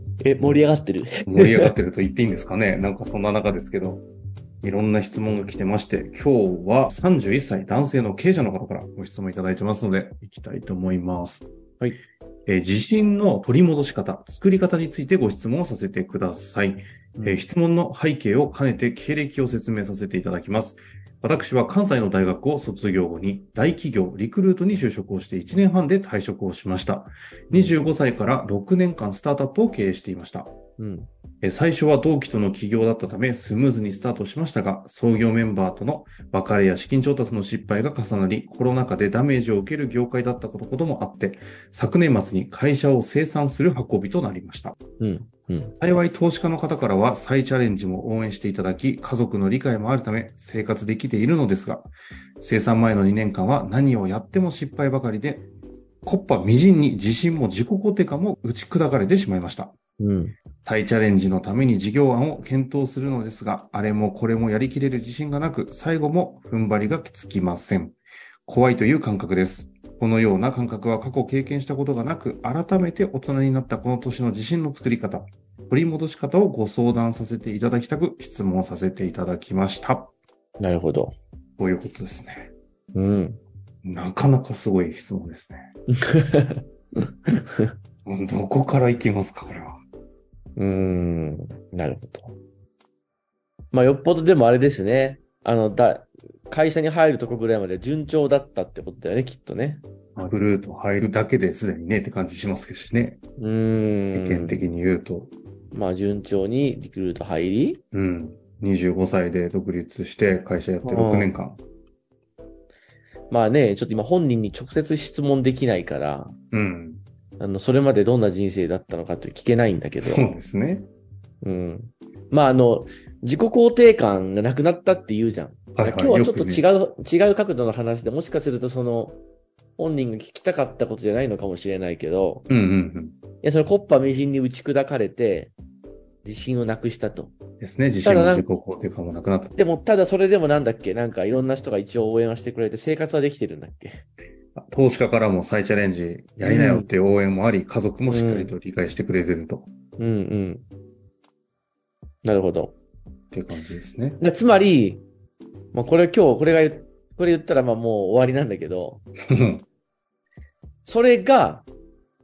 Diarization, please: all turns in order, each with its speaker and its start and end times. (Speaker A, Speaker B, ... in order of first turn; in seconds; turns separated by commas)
Speaker A: 0.2-1.7, Speaker B: 1.3-4.0, Speaker B: 4.6-11.5, Speaker B: 12.5-30.5, Speaker A: 17.2-17.4, Speaker A: 30.8-31.1, Speaker B: 31.4-44.8, Speaker A: 45.0-45.8, Speaker B: 45.8-55.5, Speaker B: 56.0-59.7, Speaker A: 60.0-60.4, Speaker B: 60.6-80.1, Speaker A: 80.6-81.2, Speaker B: 81.6-82.5, Speaker A: 82.9-83.4, Speaker B: 83.8-85.7, Speaker A: 86.0-87.7, Speaker B: 88.0-89.8, Speaker A: 90.6-92.3, Speaker A: 93.7-100.3, Speaker B: 100.2-103.2, Speaker A: 103.4-104.7, Speaker B: 104.2-105.3, Speaker A: 105.7-107.8, Speaker B: 107.9-111.6, Speaker A: 110.8-111.3, Speaker A: 113.3-116.4, Speaker B: 116.5-117.0, Speaker A: 117.4-120.3, Speaker B: 120.0-120.9, Speaker A: 121.4-129.2, Speaker B: 125.8-126.6, Speaker A: 129.8-132.5, Speaker B: 132.5-133.2, Speaker A: 133.4-135.5, Speaker A: 136.2-137.4, Speaker B: 137.6-139.6, Speaker A: 138.0-138.5, Speaker A: 139.6-144.1, Speaker B: 144.6-149.7, Speaker A: 146.4-146.9, Speaker A: 148.1-148.5, Speaker A: 150.0-150.7, Speaker A: 152.2-152.8, Speaker B: 153.3-154.2, Speaker A: 154.2-155.1, Speaker A: 155.7-159.0, Speaker B: 159.3-159.7, Speaker A: 160.8-161.7